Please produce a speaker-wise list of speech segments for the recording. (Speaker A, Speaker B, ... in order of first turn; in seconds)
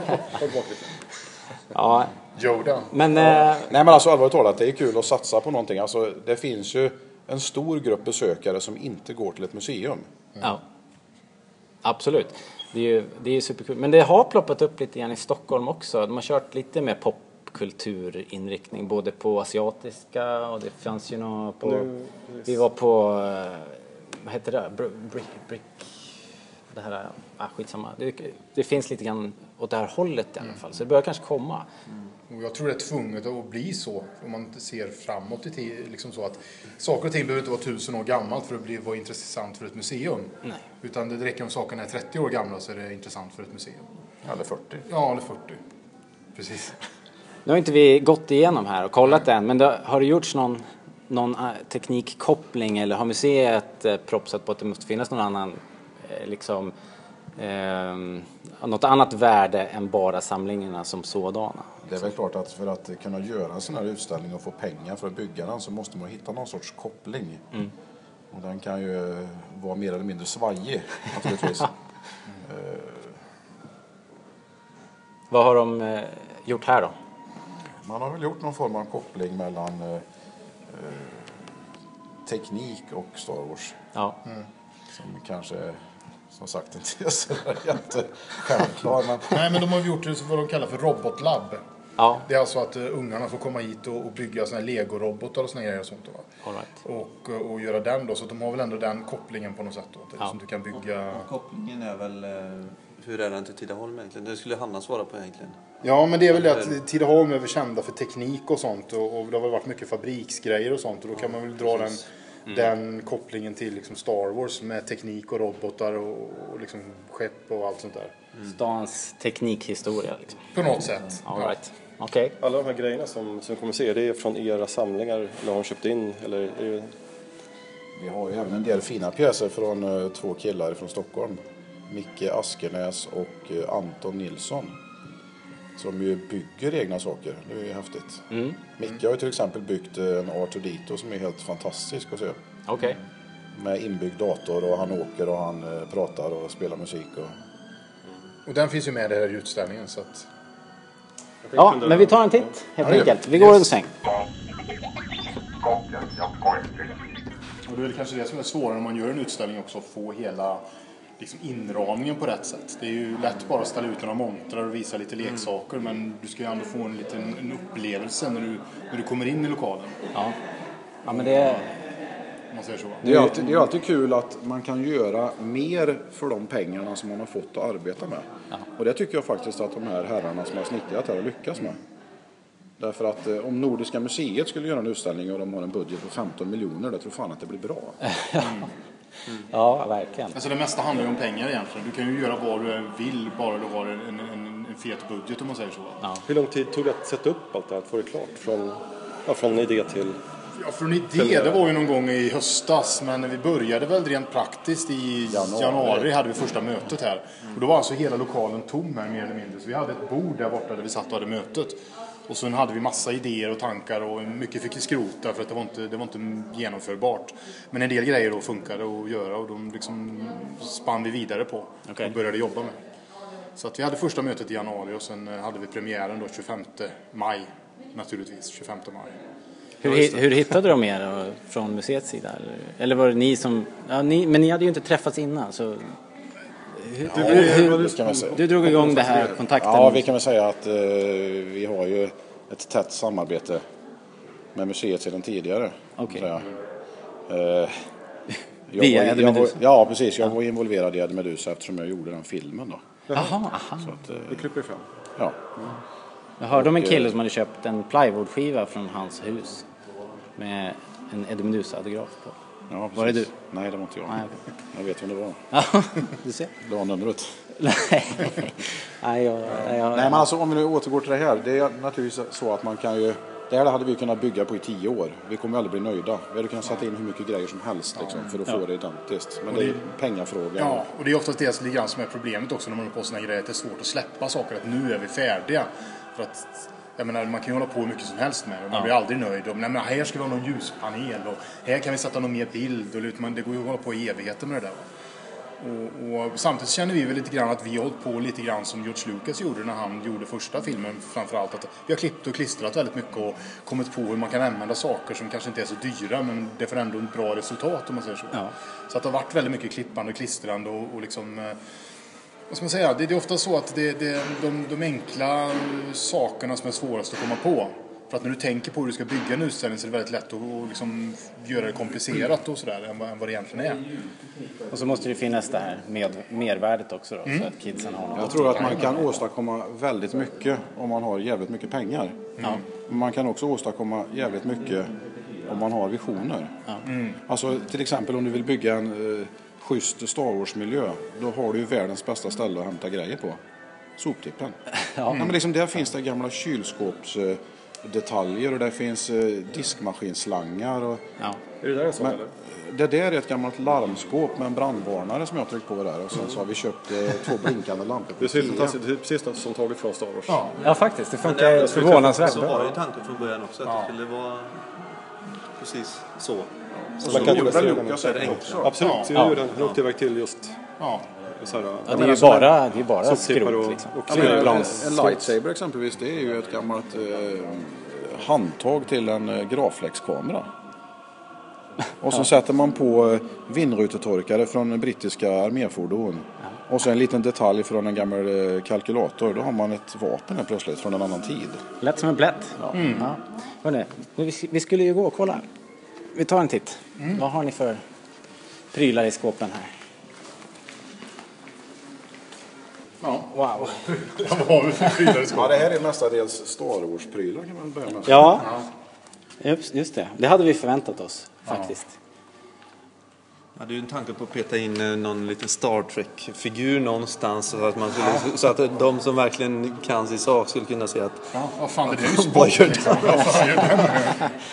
Speaker A: 0.2-0.9, 21.6-22.6, 122.4-126.9, 151.4-152.5, 196.2-200.2, 201.1-201.7, 237.1-239.3, 253.1-253.4, 254.3-254.8, 351.6-352.3, 358.2-360.4, 361.5-362.8, 367.0-370.5, 371.3-375.3
Speaker B: 1.7-2.1, 2.9-3.7, 11.8-21.9, 22.4-26.0, 26.7-31.7, 47.4-56.7, 57.4-62.0, 75.3-77.0, 92.0-92.3, 118.5-120.4, 121.2-122.3, 138.3-138.6, 142.7-143.0, 151.5-153.9, 171.0-171.7, 173.0-173.4, 188.0-188.7, 189.5-190.4, 221.9-222.1, 229.8-235.9, 236.7-240.1, 246.0-246.3, 248.8-249.6, 253.1-253.9, 256.4-259.7, 260.4-262.4, 262.9-263.3, 264.1-264.3, 265.5-266.5, 267.6-270.3, 324.7-329.1, 344.9-345.3, 360.6-362.6, 369.1-369.4, 371.8-375.1, 391.8-395.4, 396.1-397.8, 398.7-399.7, 403.3-403.8, 408.0-408.5, 409.4-411.9
Speaker C: 2.4-3.0, 32.3-43.8, 44.9-45.6, 46.4-46.7, 89.3-91.6, 92.2-96.2, 96.8-101.3, 105.8-118.1, 120.5-121.6, 148.4-150.3, 157.7-160.6, 161.2-169.9, 171.1-171.7, 172.5-173.0, 188.4-188.7, 190.3-196.0, 200.6-211.8, 212.3-222.8, 223.6-229.1, 278.0-278.3, 279.5-279.8, 280.6-294.8, 295.6-311.6, 312.5-323.8, 327.3-327.5, 332.4-332.6, 336.8-337.2, 345.1-345.4, 360.3-360.5, 363.7-363.9, 368.8-369.1, 370.8-371.1, 392.7-393.1, 403.0-405.7, 408.4-408.7, 421.3-424.2
Speaker D: 3.6-10.1, 44.2-44.8, 61.8-67.4, 68.3-71.7, 72.5-73.2, 77.8-80.0, 80.7-81.5, 82.2-83.8, 84.9-85.8, 86.3-89.5, 128.0-134.7, 135.8-142.4, 143.6-147.3, 152.8-153.7, 173.0-181.8, 182.8-187.9, 205.3-206.1, 237.0-243.6, 244.5-246.4, 247.3-247.8, 248.7-252.9, 253.8-254.5, 255.2-255.5, 256.5-257.1, 262.7-264.2, 264.7-265.4, 266.6-267.4, 269.6-280.8, 328.1-334.9, 335.4-336.5, 337.3-343.4, 344.0-344.6, 345.1-351.0, 352.0-358.8, 367.0-368.8, 374.1-380.5, 382.0-391.6, 405.3-408.4
Speaker E: 101.1-105.6, 106.3-106.8, 361.2-364.5, 365.6-368.7, 413.6-421.3, 422.0-423.6